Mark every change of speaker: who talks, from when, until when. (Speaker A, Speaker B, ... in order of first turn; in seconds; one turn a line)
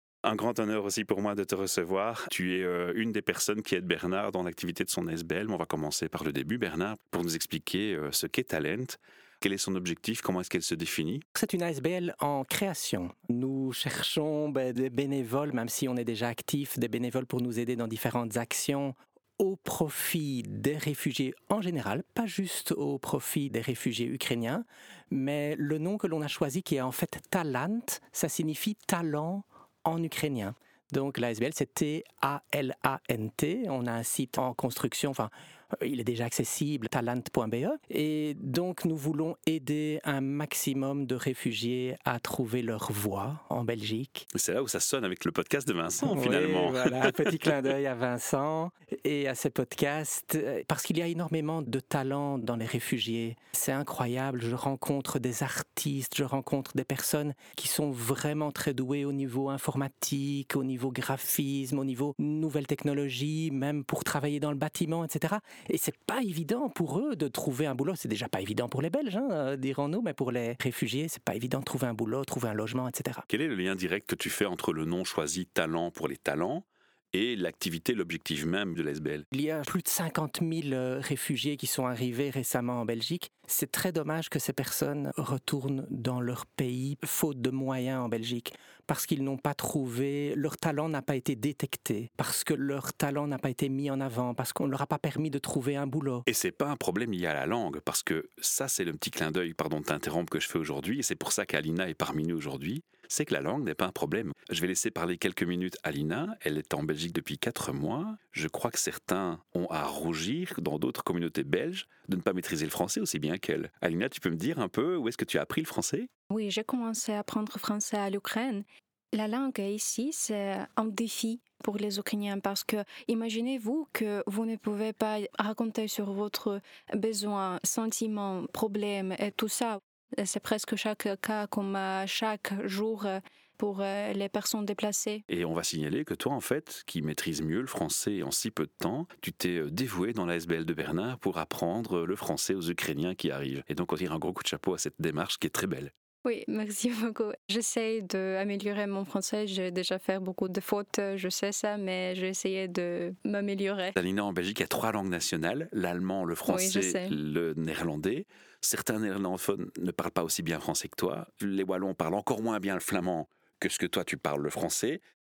Speaker A: 0.2-11.2
Speaker B: 11.3-44.2
Speaker A: 44.3-47.6
Speaker B: 46.0-73.2
Speaker A: 73.3-79.2
Speaker B: 79.3-96.2
Speaker A: 96.3-116.1
Speaker C: 116.3-135.2
Speaker A: 135.3-145.9
Speaker C: 146.2-153.9
Speaker A: 153.9-165.0
Speaker C: 156.5-157.1